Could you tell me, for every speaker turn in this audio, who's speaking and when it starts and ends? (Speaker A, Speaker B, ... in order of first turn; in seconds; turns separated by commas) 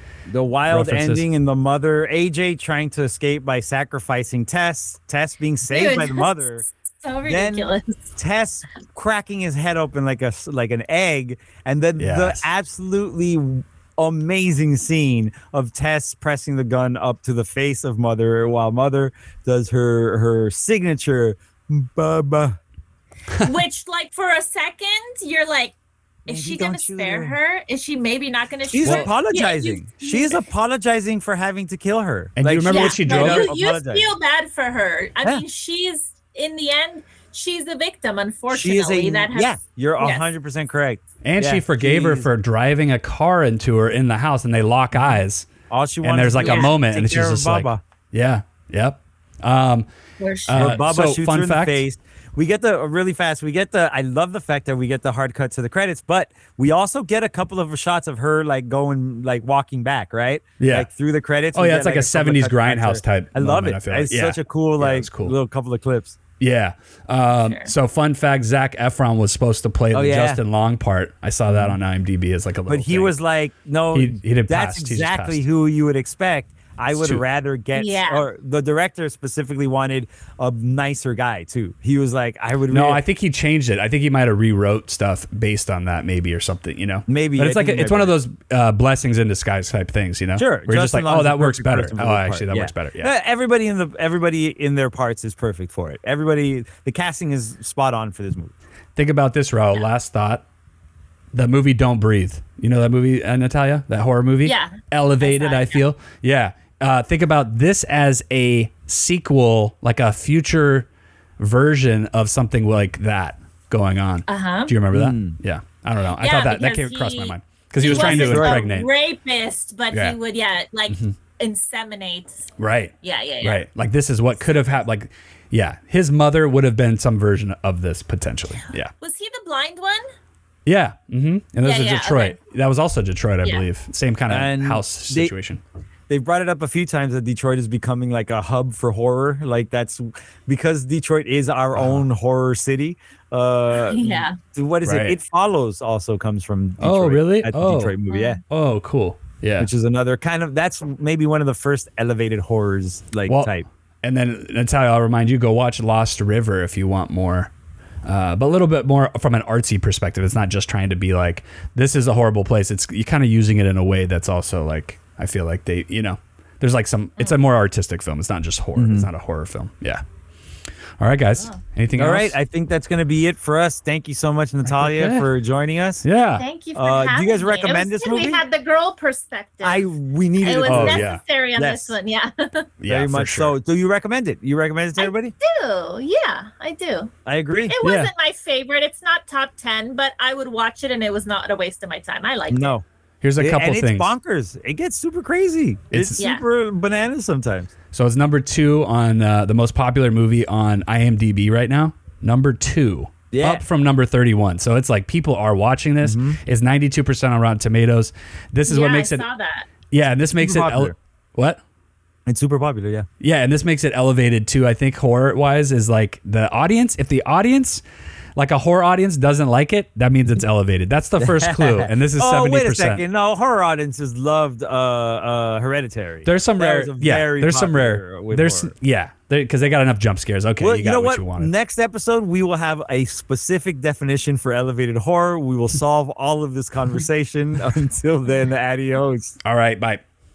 Speaker A: 0.3-6.6, Speaker B: 0.7-1.3, Speaker C: 5.7-8.0, Speaker A: 7.3-22.6, Speaker B: 12.0-12.5, Speaker C: 23.4-25.7, Speaker A: 26.3-27.4, Speaker C: 26.3-30.4, Speaker A: 28.7-34.1, Speaker B: 28.8-29.1, Speaker B: 32.4-33.5, Speaker C: 32.7-40.2, Speaker A: 38.5-42.3, Speaker B: 41.2-45.5, Speaker A: 44.9-45.2, Speaker A: 45.7-47.8, Speaker B: 46.0-49.9, Speaker C: 46.4-46.7, Speaker C: 50.2-50.8, Speaker B: 50.5-51.8, Speaker A: 50.5-66.2, Speaker B: 60.6-60.9, Speaker B: 61.5-65.3, Speaker B: 66.4-73.1, Speaker C: 67.4-67.7, Speaker A: 69.9-70.4, Speaker A: 71.5-71.8, Speaker A: 72.7-83.0, Speaker B: 73.9-75.4, Speaker B: 76.9-77.2, Speaker C: 77.7-78.3, Speaker B: 82.7-93.1, Speaker A: 87.1-88.1, Speaker A: 90.4-98.5, Speaker B: 99.0-100.4, Speaker B: 101.3-118.9, Speaker C: 104.5-105.8, Speaker C: 114.3-114.7, Speaker A: 114.9-115.4, Speaker C: 116.2-122.5, Speaker A: 117.8-118.6, Speaker B: 120.9-121.1, Speaker B: 122.6-128.9, Speaker C: 123.0-123.7, Speaker C: 129.0-130.1, Speaker B: 130.7-135.6, Speaker C: 131.6-132.4, Speaker A: 134.3-135.3, Speaker A: 136.1-148.4, Speaker B: 141.7-142.1, Speaker C: 143.8-144.4, Speaker B: 144.8-145.2, Speaker B: 146.8-147.9, Speaker C: 148.1-148.4, Speaker B: 148.5-149.7, Speaker A: 149.6-153.7, Speaker B: 154.0-157.5, Speaker B: 158.0-170.0, Speaker A: 168.8-169.1, Speaker B: 171.0-172.4, Speaker A: 172.0-176.1, Speaker B: 174.7-175.3, Speaker B: 176.0-176.4, Speaker C: 176.4-179.8, Speaker A: 176.7-178.4, Speaker A: 179.6-181.9, Speaker C: 180.4-182.7, Speaker B: 180.7-181.2, Speaker B: 182.8-183.6, Speaker A: 182.9-185.3, Speaker C: 185.0-187.1, Speaker A: 187.3-187.7, Speaker C: 187.7-192.8, Speaker B: 187.8-188.1, Speaker A: 192.5-192.8, Speaker B: 193.2-194.1, Speaker A: 193.4-197.7, Speaker B: 195.9-196.2, Speaker C: 196.2-196.4, Speaker B: 197.9-209.3, Speaker A: 203.3-203.6, Speaker A: 206.0-206.4, Speaker C: 208.7-209.7, Speaker B: 209.9-211.6, Speaker A: 210.4-210.9, Speaker A: 212.3-213.1, Speaker B: 213.2-217.8, Speaker B: 218.4-223.0, Speaker A: 221.2-228.7, Speaker B: 226.2-231.5, Speaker A: 230.6-239.4, Speaker B: 239.4-240.0